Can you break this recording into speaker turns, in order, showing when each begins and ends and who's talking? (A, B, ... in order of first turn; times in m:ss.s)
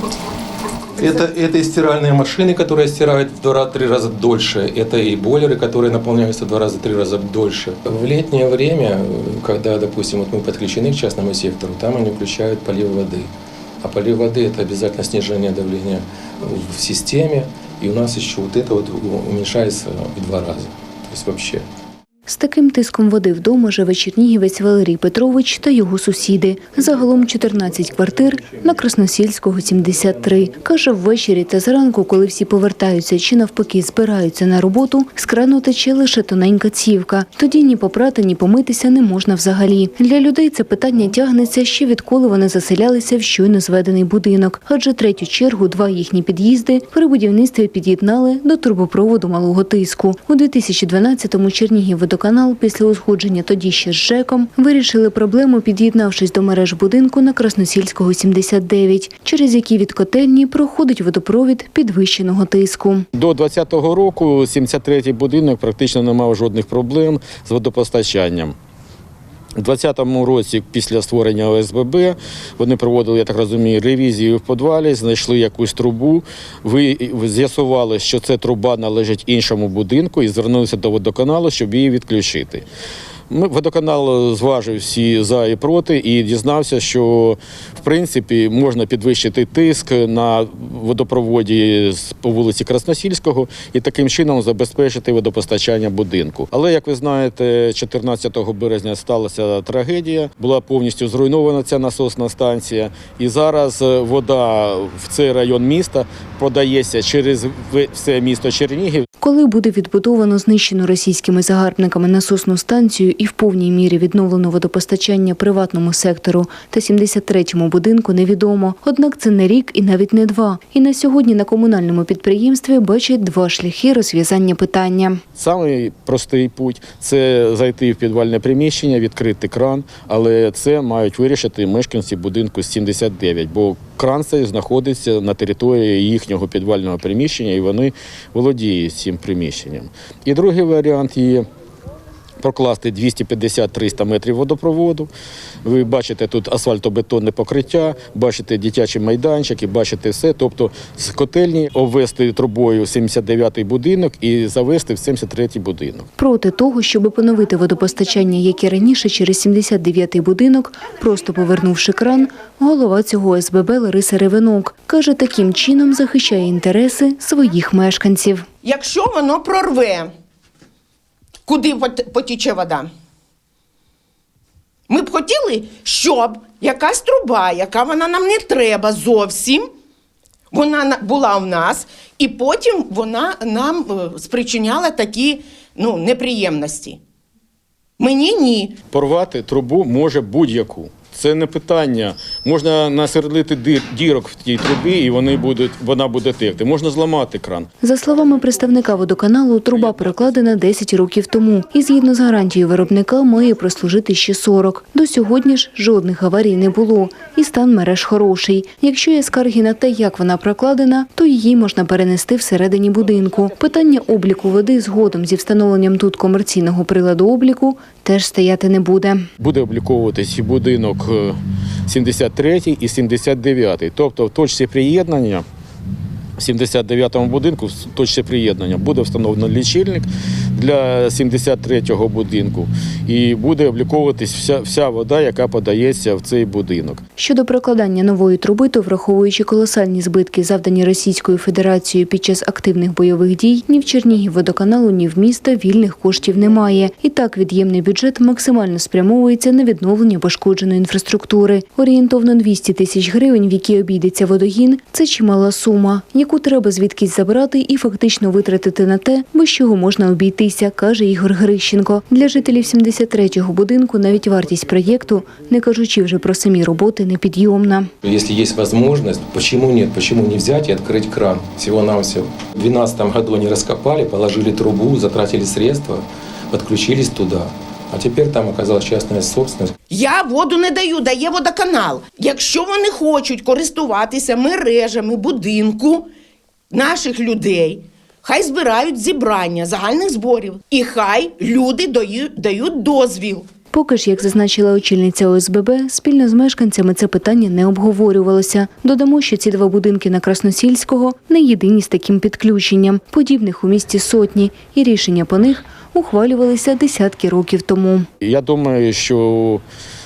0:01.0-0:13.3 A
0:13.8-0:21.6 A
0:22.2-1:03.1 B
1:03.2-1:08.5 C
1:09.6-1:22.6 C
1:23.3-1:49.0 C
1:49.2-2:05.2 B
2:05.4-2:21.4 C
2:22.4-2:25.1 C
2:25.6-2:36.1 C
2:36.2-2:48.4 B
2:48.6-2:50.1 D
2:51.4-2:52.9 D
2:54.9-2:59.6 D
3:00.5-3:07.0 D
3:08.0-3:08.8 D
3:08.9-3:17.7 C
3:17.8-3:39.2 B
3:39.4-3:45.4 C
3:46.4-3:57.0 C
3:57.2-4:27.9 B
4:28.0-4:39.7 A
4:39.9-4:46.1 D
4:46.7-4:53.5 D
4:53.7-5:08.1 B
5:08.2-5:09.6 C